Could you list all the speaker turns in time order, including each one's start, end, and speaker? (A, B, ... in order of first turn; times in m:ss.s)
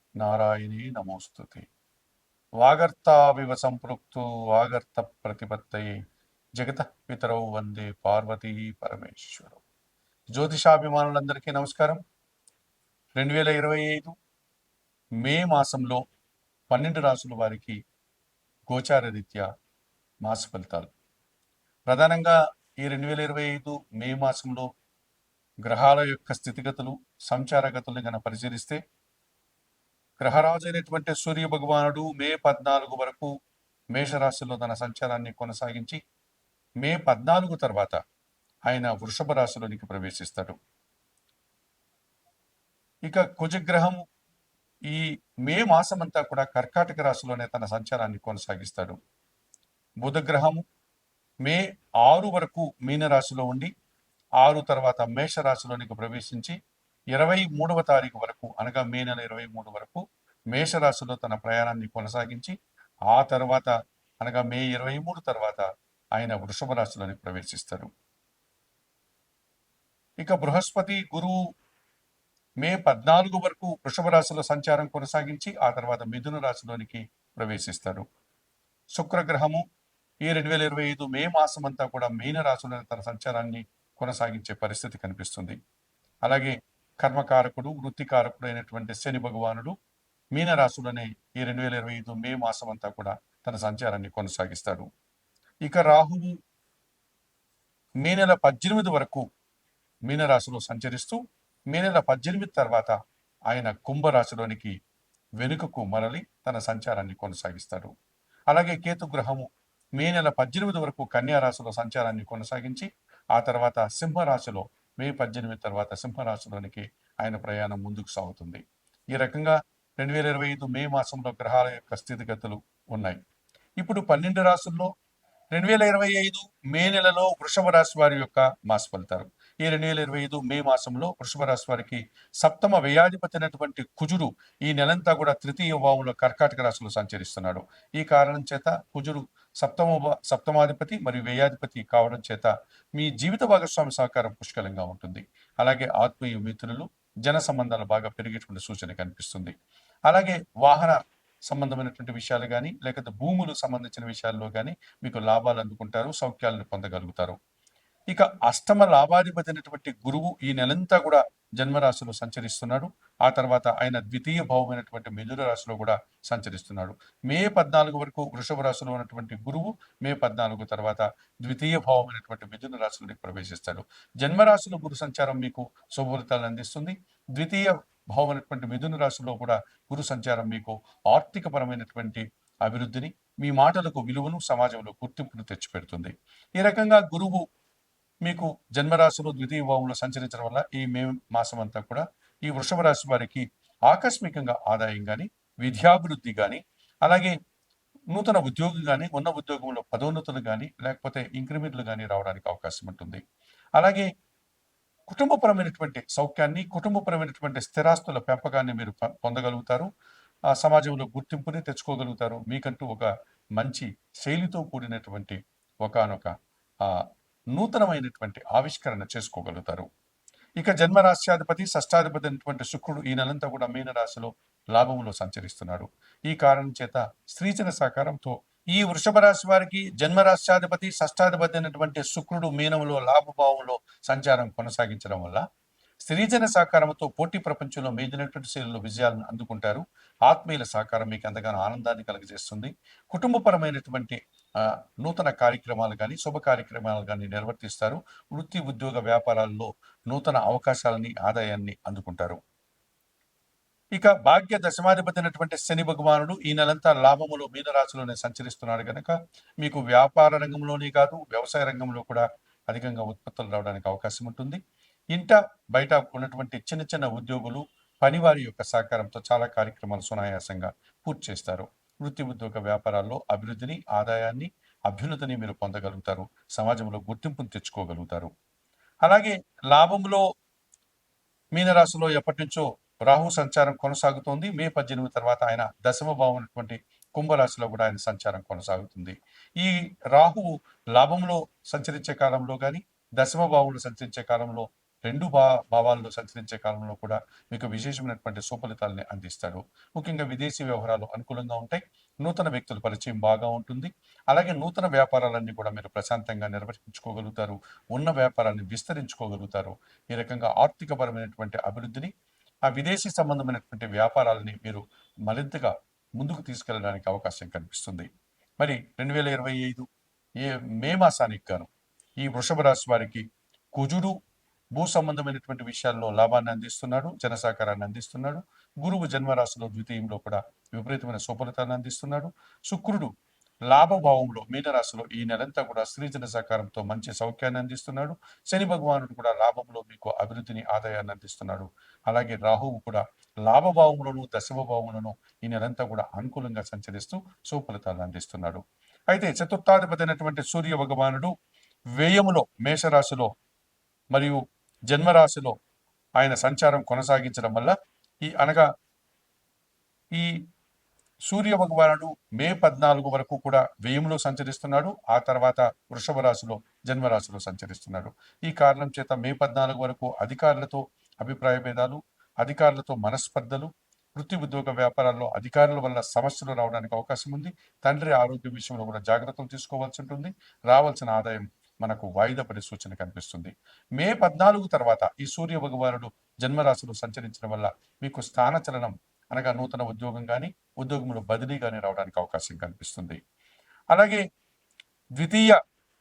0:00.2-0:01.7 A
0:02.6-0:06.0 A
0:06.6-0:09.6 A
0:10.4-0:12.0 A
0:13.2-0:14.1 A
0:15.2-0:16.0 A
0:16.7-0:17.8 A
0:18.7-0:19.5 A
0:20.2-0:20.9 A
0:21.9-0:24.7 A
0:25.6-0:28.8 A
0:30.2-0:33.3 A
0:33.9-0:36.0 A
0:36.8-0:38.0 A
0:38.7-0:40.6 A
0:43.1-0:44.0 A
0:44.9-0:49.0 A
0:50.0-0:50.6 A
0:51.4-0:53.7 A
0:54.4-0:56.6 A
0:57.1-1:02.6 A
1:03.1-1:05.6 A
1:06.2-1:07.9 A
1:10.2-1:11.4 A
1:12.6-1:18.0 A
1:19.0-1:19.6 A
1:20.2-1:25.6 A
1:26.2-1:29.7 A
1:30.4-1:34.9 A
1:35.6-1:36.4 A
1:38.0-1:39.2 A
1:40.1-1:41.2 A
1:41.7-1:43.0 A
1:43.5-1:44.7 A
1:45.4-1:47.9 A
1:48.5-2:03.2 A
2:03.8-2:04.9 A
2:05.5-2:29.5 A
2:30.1-2:37.4 A
2:38.1-3:07.4 A
3:08.2-3:17.3 A
3:18.1-3:23.2 A
3:23.8-3:24.1 A
3:25.1-3:29.9 A
3:30.5-3:39.9 A
3:40.6-3:55.4 A
3:56.0-4:12.4 A
4:13.9-4:24.6 A
4:25.1-4:38.3 A
4:39.0-4:40.2 A
4:41.6-5:12.1 A
5:12.7-5:18.1 A
5:18.6-5:19.9 A
5:20.4-5:21.7 A
5:22.2-5:24.2 A
5:24.8-5:33.1 A
5:33.7-5:51.3 A
5:52.0-5:53.3 A
5:54.1-5:54.4 A
5:54.9-5:55.6 A
5:56.2-5:58.7 A
6:00.1-6:00.4 A
6:01.3-6:33.2 A
6:33.9-6:34.2 A
6:35.2-6:35.6 A